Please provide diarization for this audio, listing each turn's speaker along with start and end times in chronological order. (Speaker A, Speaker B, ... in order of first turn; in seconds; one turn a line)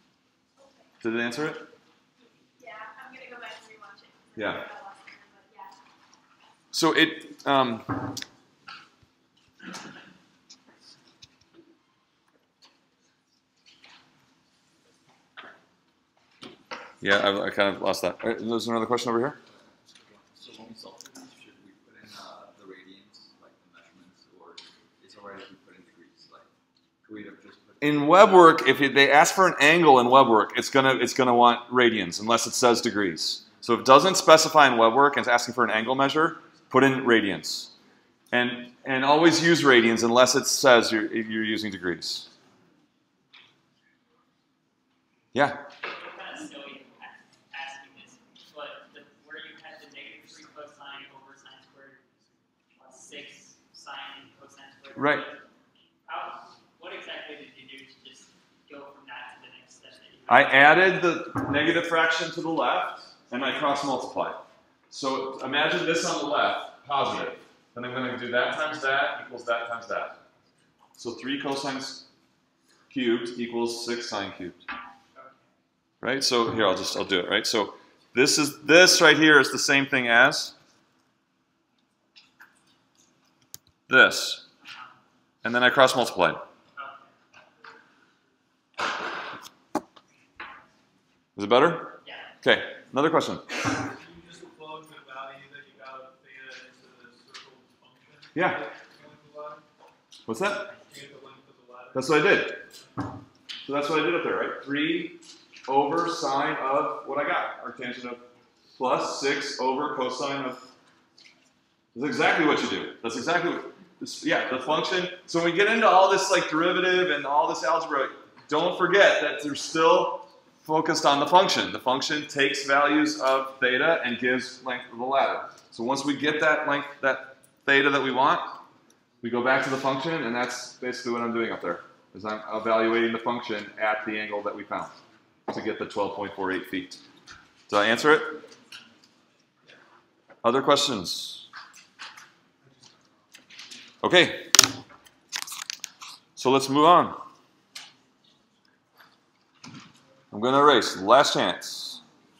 Speaker A: 0.6-0.9
Speaker B: 1.0-1.7
Speaker A: 2.5-5.8
Speaker B: 4.3-4.6
Speaker B: 6.7-8.1
Speaker B: 17.0-19.4
Speaker C: 19.8-26.5
Speaker C: 27.0-28.4
Speaker B: 27.8-37.7
Speaker B: 38.3-42.3
Speaker B: 45.3-45.6
Speaker D: 45.9-52.0
Speaker D: 52.7-55.4
Speaker B: 55.0-55.2
Speaker D: 56.0-60.6
Speaker B: 60.3-70.2
Speaker B: 71.0-72.0
Speaker B: 72.9-74.6
Speaker D: 75.1-75.4
Speaker B: 76.0-80.5
Speaker B: 83.9-84.4
Speaker B: 85.4-86.4
Speaker D: 86.8-87.1
Speaker B: 91.3-93.4
Speaker D: 92.0-92.3
Speaker E: 93.8-99.6
Speaker B: 98.3-98.6
Speaker B: 100.3-100.7
Speaker E: 100.7-102.4
Speaker B: 101.9-102.7
Speaker B: 103.6-108.2
Speaker B: 108.7-110.6
Speaker B: 111.9-128.6
Speaker B: 129.2-134.9
Speaker B: 135.5-137.0
Speaker B: 137.7-138.5
Speaker B: 140.4-141.5
Speaker B: 144.0-144.6
Speaker B: 146.4-147.2
Speaker B: 150.3-152.0